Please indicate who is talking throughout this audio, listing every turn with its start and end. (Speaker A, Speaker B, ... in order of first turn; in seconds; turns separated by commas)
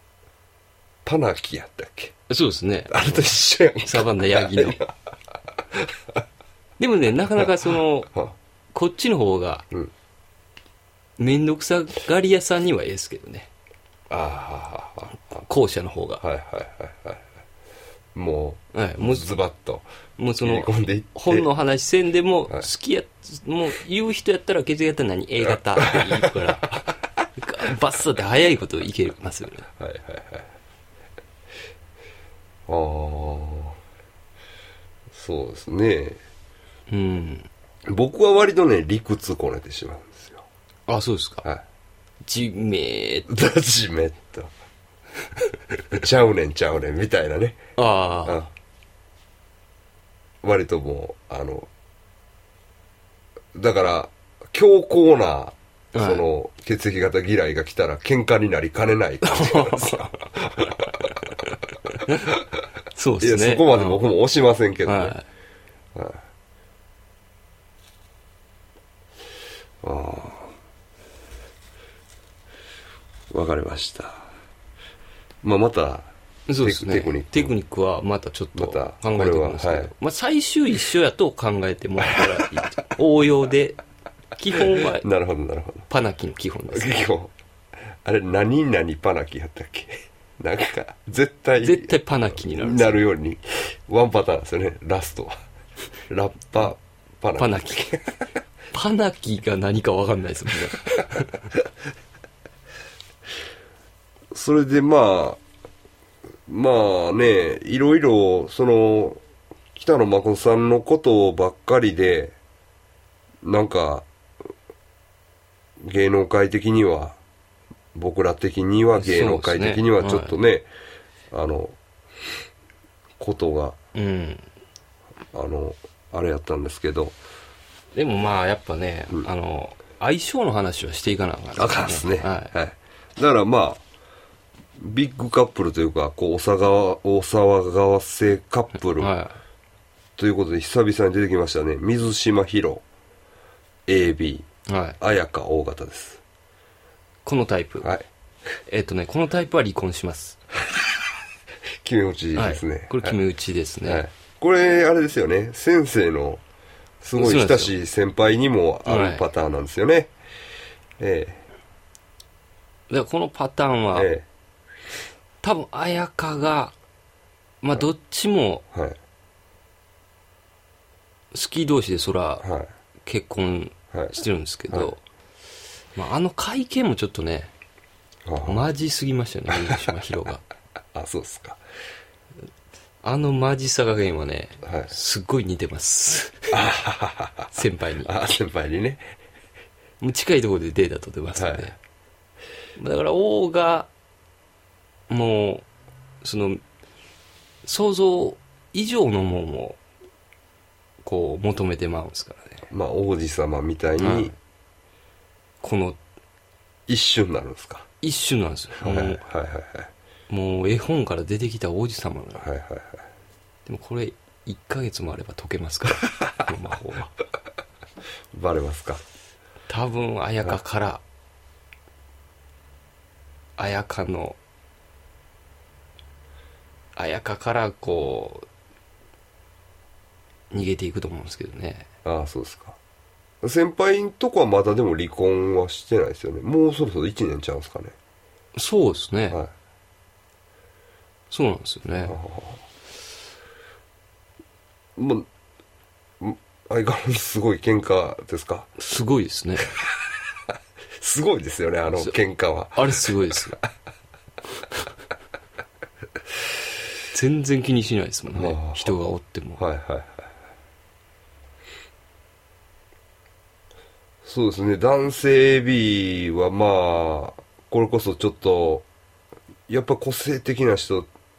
Speaker A: 1.0-2.1, Speaker B: 2.3-3.2, Speaker A: 2.9-4.9, Speaker B: 3.8-4.8, Speaker A: 5.7-6.2, Speaker B: 6.8-8.1, Speaker B: 8.7-9.7, Speaker B: 11.2-13.5, Speaker A: 14.1-15.2, Speaker B: 15.3-16.2, Speaker A: 16.2-17.2, Speaker A: 18.1-19.8, Speaker B: 18.7-19.3, Speaker B: 20.2-29.7, Speaker A: 20.4-21.5, Speaker A: 25.9-26.3, Speaker A: 29.8-30.5, Speaker A: 32.7-33.8, Speaker A: 35.1-36.2, Speaker B: 36.9-37.5, Speaker A: 37.9-40.5, Speaker B: 40.9-41.5, Speaker B: 42.2-43.3, Speaker A: 43.3-44.5, Speaker A: 45.9-47.6, Speaker B: 47.8-48.4, Speaker A: 48.2-48.5, Speaker A: 50.4-51.7, Speaker A: 53.5-61.2, Speaker B: 55.9-56.2, Speaker B: 59.2-61.1, Speaker B: 62.0-62.3, Speaker B: 62.9-64.0, Speaker A: 63.2-65.1, Speaker B: 64.8-65.2, Speaker A: 65.9-66.2, Speaker A: 69.8-70.5, Speaker A: 73.3-74.3, Speaker A: 75.4-77.5, Speaker B: 76.5-83.8, Speaker A: 78.5-79.9, Speaker B: 84.3-85.1, Speaker A: 84.6-85.8, Speaker B: 85.9-87.0, Speaker A: 86.7-87.3, Speaker A: 88.0-91.9, Speaker B: 91.6-93.0, Speaker A: 92.5-95.4, Speaker A: 96.1-98.0, Speaker B: 97.4-98.0, Speaker B: 98.7-101.4, Speaker A: 104.3-105.4, Speaker A: 106.5-109.2, Speaker A: 109.7-112.3, Speaker A: 113.4-114.1, Speaker A: 115.8-117.2, Speaker A: 117.9-120.7, Speaker B: 119.0-120.4, Speaker A: 121.3-121.8, Speaker A: 123.2-123.8, Speaker B: 123.9-124.4, Speaker A: 125.3-127.1, Speaker B: 127.9-132.5, Speaker A: 131.6-133.8, Speaker A: 134.8-139.1, Speaker B: 139.0-139.4, Speaker A: 140.2-142.8, Speaker A: 143.9-144.5, Speaker B: 144.7-145.0, Speaker A: 145.0-146.2, Speaker B: 147.2-147.9, Speaker A: 147.8-148.1, Speaker B: 148.7-150.4, Speaker A: 151.8-153.2, Speaker B: 152.3-154.1, Speaker A: 153.8-156.4, Speaker A: 157.0-160.1, Speaker B: 157.2-157.7, Speaker B: 158.8-159.2, Speaker A: 161.0-161.4, Speaker B: 162.9-164.1, Speaker A: 163.9-164.2, Speaker B: 165.4-166.7, Speaker B: 167.6-168.6, Speaker B: 171.3-172.5, Speaker A: 172.4-172.7, Speaker B: 173.0-175.0, Speaker B: 175.9-177.5, Speaker A: 178.2-178.6, Speaker B: 178.4-180.4, Speaker A: 180.9-181.6, Speaker B: 183.0-186.5, Speaker A: 184.6-184.9, Speaker A: 186.5-189.1, Speaker B: 187.5-188.1, Speaker B: 190.0-191.7, Speaker A: 191.3-191.7, Speaker B: 192.8-193.9, Speaker B: 195.1-195.7, Speaker B: 196.2-196.6, Speaker B: 197.6-199.8, Speaker B: 201.0-202.7, Speaker A: 202.7-204.3, Speaker B: 204.0-204.3, Speaker B: 205.6-206.0, Speaker A: 206.9-207.9, Speaker B: 208.0-209.2, Speaker A: 208.8-209.9, Speaker B: 210.3-212.5, Speaker A: 212.4-213.0, Speaker B: 213.7-217.1, Speaker A: 218.3-219.0, Speaker B: 219.7-221.0, Speaker B: 223.6-224.4, Speaker B: 226.9-228.5, Speaker B: 230.5-231.9, Speaker A: 232.0-232.8, Speaker A: 233.4-237.9, Speaker B: 238.5-239.4, Speaker B: 241.3-242.2, Speaker A: 242.0-242.6, Speaker A: 244.9-245.3, Speaker A: 246.2-248.7, Speaker B: 248.8-249.7, Speaker A: 249.7-250.2, Speaker A: 251.0-253.1, Speaker B: 252.7-253.6, Speaker B: 257.1-259.6, Speaker A: 258.3-258.9, Speaker A: 259.6-260.3, Speaker A: 264.2-268.9, Speaker A: 269.7-271.1